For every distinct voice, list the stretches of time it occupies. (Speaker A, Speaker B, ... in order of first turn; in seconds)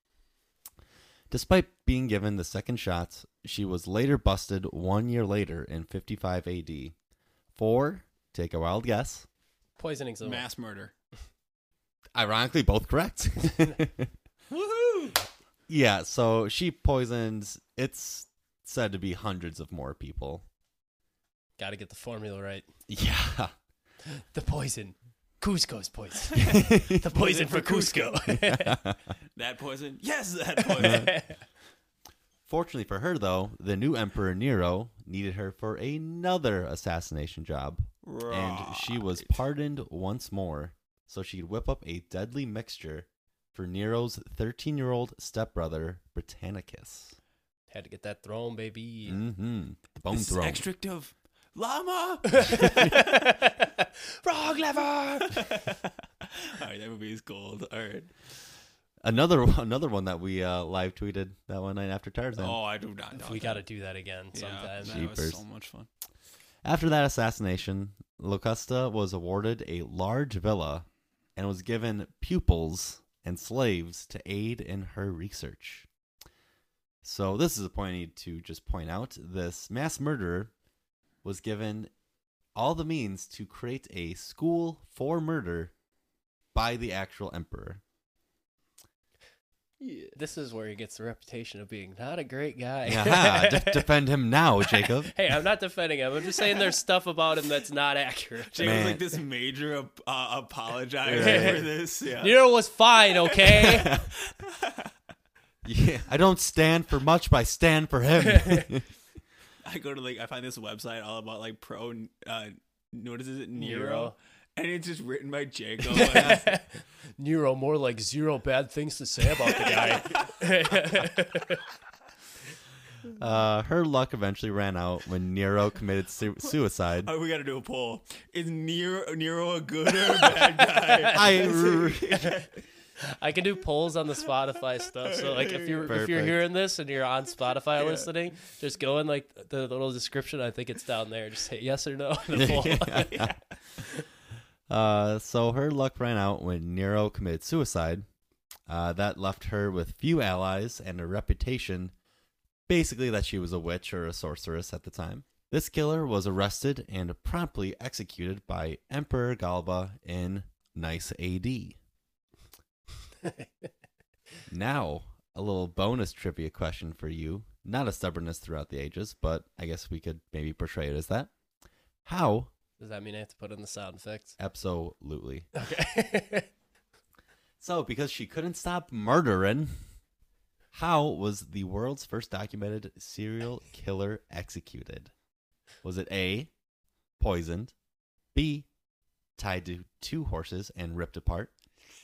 Speaker A: 1.3-6.9, 7.5-9.3, 12.1-14.1, 15.7-20.4, 22.9-23.5, 26.4-27.0, 28.3-29.1, 30.8-31.1, 32.5-47.1, 49.1-50.6, 59.0-62.6, 64.8-65.4, 66.6-75.9, 77.0-80.5, 81.2-81.9, 82.5-85.7, 86.5-87.8, 92.8-95.1, 98.6-99.0, 101.0-101.6, 103.6-104.1, 105.6-108.9, 123.2-127.1, 131.1-132.1, 135.9-136.4, 142.3-143.3, 144.7-148.1, 148.7-151.9, 152.7-161.8, 164.5-171.3, 172.0-172.5, 174.4-175.5, 177.6-179.8, 180.7-185.1, 185.8-186.5, 187.2-187.7, 188.3-188.7, 189.4-191.5
Speaker B: 9.8-10.4, 21.6-22.7, 24.1-28.8, 30.7-31.4, 47.7-49.2, 52.4-55.5, 63.1-65.1, 90.1-93.9, 94.7-98.8, 101.1-101.7, 102.2-103.9, 108.3-108.6, 113.5-114.2, 115.9-121.6, 130.1-131.4, 133.0-143.2, 163.2-163.5, 172.8-174.4, 175.5-176.5
Speaker C: 10.2-10.9, 14.5-15.2, 27.1-28.1, 29.4-31.1, 38.0-39.4, 50.1-53.3, 55.3-58.4, 62.4-63.6, 64.3-65.9, 89.8-90.1, 98.5-102.4, 103.2-104.9, 109.6-116.5, 119.5-120.3, 127.0-132.6, 135.2-136.0, 137.8-138.1, 142.5-143.4